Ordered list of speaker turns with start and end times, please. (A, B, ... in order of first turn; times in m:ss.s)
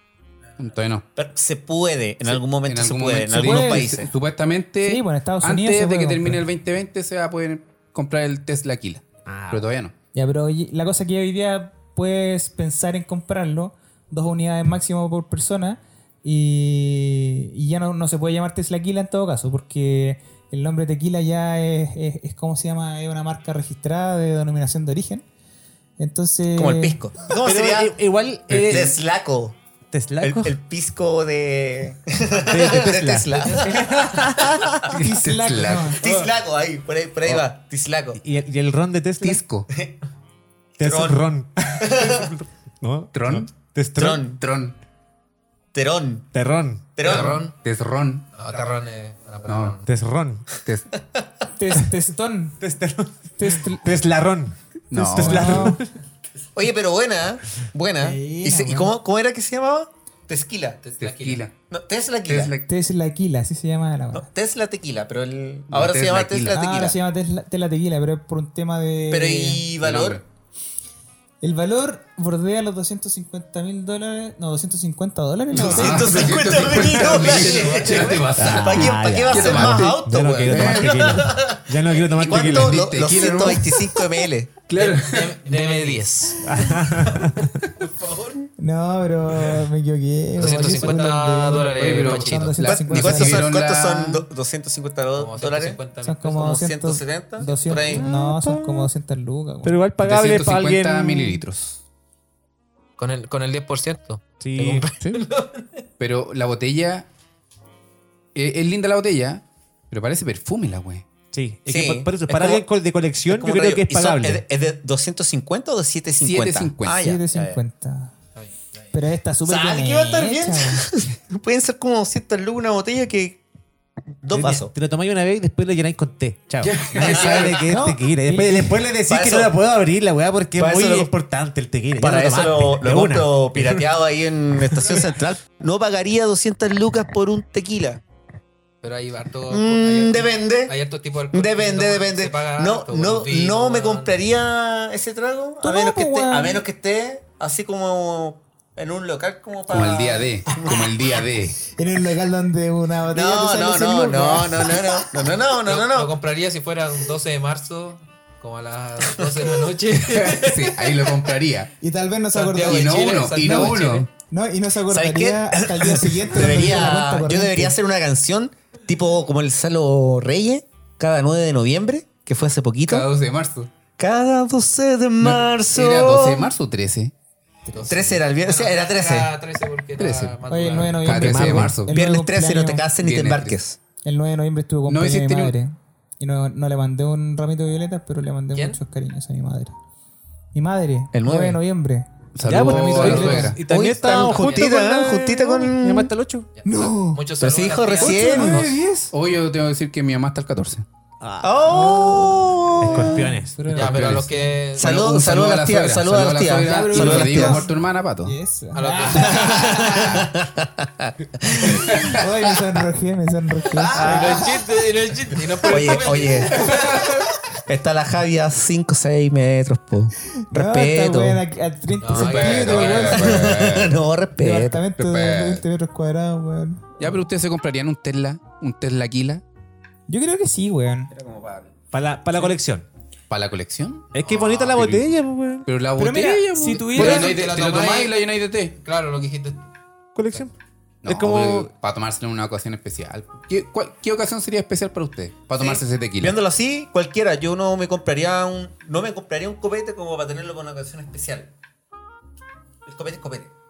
0:00.6-0:01.0 A
0:01.2-0:04.1 B
0:02.2-0:09.9 A
0:03.3-0:04.0 C
0:04.8-0:06.4 C
0:09.3-0:09.7 D
0:10.1-0:25.2 C
0:26.0-0:27.0 C
0:26.5-0:28.0 B
0:27.4-0:29.0 D
0:28.5-0:29.6 B
0:29.9-0:30.6 D
0:30.2-0:34.7 B
0:32.5-0:35.0 D
0:34.9-0:36.0 C
0:35.2-0:36.1 A
0:35.9-0:38.2 B
0:38.2-0:39.5 D
0:39.2-0:39.7 A
0:39.7-0:39.9 B
0:40.8-0:44.2 D
0:40.8-0:42.3 B
0:43.1-0:43.5 A
0:44.0-0:44.4 B
0:44.3-0:44.7 A
0:45.7-0:46.3 B
0:46.3-0:47.0 D
0:47.0-0:47.4 B
0:47.0-0:47.5 E
0:47.0-0:48.2 A
0:48.3-0:49.8 E
0:49.4-0:49.8 A
0:49.8-0:50.5 D
0:51.6-0:52.6 C
0:52.6-0:55.9 D
0:53.4-0:53.9 C
0:54.9-0:55.8 A
0:55.1-0:55.8 C
0:56.5-1:00.8 B
0:58.0-0:58.9 C
1:00.8-1:01.4 E
1:01.0-1:01.5 A
1:01.7-1:02.5 B
1:02.2-1:02.7 A
1:02.7-1:04.3 C
1:04.1-1:07.0 B
1:05.7-1:06.6 A
1:06.5-1:09.6 C
1:09.1-1:10.2 B
1:09.8-1:10.2 A
1:11.4-1:16.5 C
1:15.5-1:21.4 A
1:15.5-1:24.5 B
1:17.0-1:18.3 E
1:18.3-1:22.8 D
1:22.1-1:23.9 A
1:24.7-1:25.4 A
1:24.7-1:26.5 E
1:26.4-1:27.6 D
1:26.6-1:27.0 C
1:27.1-1:28.4 E
1:28.6-1:33.5 C
1:30.4-1:32.6 E
1:31.8-1:34.2 A
1:32.9-1:38.0 B
1:35.2-1:36.3 E
1:36.0-1:39.8 C
1:37.9-1:38.9 D
1:39.6-1:41.4 D
1:40.0-1:41.8 A
1:43.0-1:45.7 E
1:44.4-1:44.9 D
1:45.0-1:45.2 A
1:46.0-1:47.1 A
1:48.3-1:51.1 A
1:51.3-1:54.4 D
1:51.7-1:52.6 B
1:53.3-1:57.6 B
1:56.2-1:57.1 A
1:56.9-1:58.1 C
1:58.9-2:00.9 C
1:59.4-2:03.4 B
2:04.2-2:04.7 B
2:04.3-2:13.8 D
2:06.6-2:07.7 A
2:06.9-2:07.8 B
2:07.7-2:08.8 C
2:09.1-2:09.5 B
2:10.6-2:11.1 B
2:12.0-2:18.0 B
2:14.7-2:15.0 D
2:18.8-2:24.2 E
2:19.5-2:20.7 B
2:21.3-2:31.0 B
2:25.6-2:26.6 C
2:29.7-2:31.6 A
2:31.7-2:35.0 C
2:33.1-2:36.1 B
2:35.6-2:41.1 E
2:39.1-2:39.4 B
2:40.0-2:41.7 A
2:41.8-2:43.7 C
2:42.3-2:44.1 E
2:42.6-2:44.1 A
2:44.3-2:47.8 C
2:44.9-2:53.0 B
2:52.8-2:53.7 A
2:54.0-2:56.5 B
2:55.2-2:57.1 A
2:57.7-3:01.2 E
2:57.8-2:59.3 B
3:00.0-3:00.4 A
3:00.5-3:02.8 C
3:01.0-3:01.9 A
3:01.1-3:01.8 D
3:01.9-3:03.8 B
3:03.0-3:03.6 A
3:04.0-3:09.7 C
3:04.9-3:05.5 A
3:08.5-3:08.8 E
3:10.5-3:13.5 C
3:11.1-3:11.6 B
3:12.4-3:13.6 A
3:12.4-3:16.5 D
3:13.0-3:16.1 B
3:14.2-3:14.7 E
3:16.6-3:18.7 E
3:16.6-3:17.2 C
3:17.4-3:18.8 B
3:18.0-3:19.1 C
3:19.1-3:20.8 A
3:21.2-3:21.9 D
3:21.4-3:23.2 B
3:21.6-3:24.2 C
3:22.8-3:23.8 D
3:23.7-3:25.1 E
3:23.7-3:24.3 A
3:24.8-3:27.6 B
3:24.8-3:28.3 A
3:26.6-3:27.7 C
3:28.2-3:30.2 C
3:28.7-3:30.2 E
3:29.2-3:31.8 B
3:31.6-3:34.4 C
3:33.9-3:37.2 E
3:33.9-3:34.4 B
3:34.0-3:34.3 D
3:35.6-3:36.9 B
3:36.6-3:37.2 A
3:37.7-3:41.4 B
3:40.5-3:43.5 C
3:42.0-3:43.4 E
3:42.1-3:44.0 A
3:43.0-3:44.8 B
3:44.4-3:47.2 C
3:45.0-3:45.6 A
3:47.0-3:49.4 A
3:50.1-3:51.1 C
3:51.1-3:51.7 B
3:51.9-3:52.8 D
3:53.3-3:58.8 A
3:54.1-3:55.7 D
3:54.2-3:54.7 E
3:56.0-3:57.4 C
3:56.9-3:58.2 E
3:58.8-3:59.6 E
4:00.1-4:00.5 D
4:01.0-4:06.4 A
4:01.0-4:01.7 D
4:05.6-4:11.5 B
4:12.8-4:13.5 B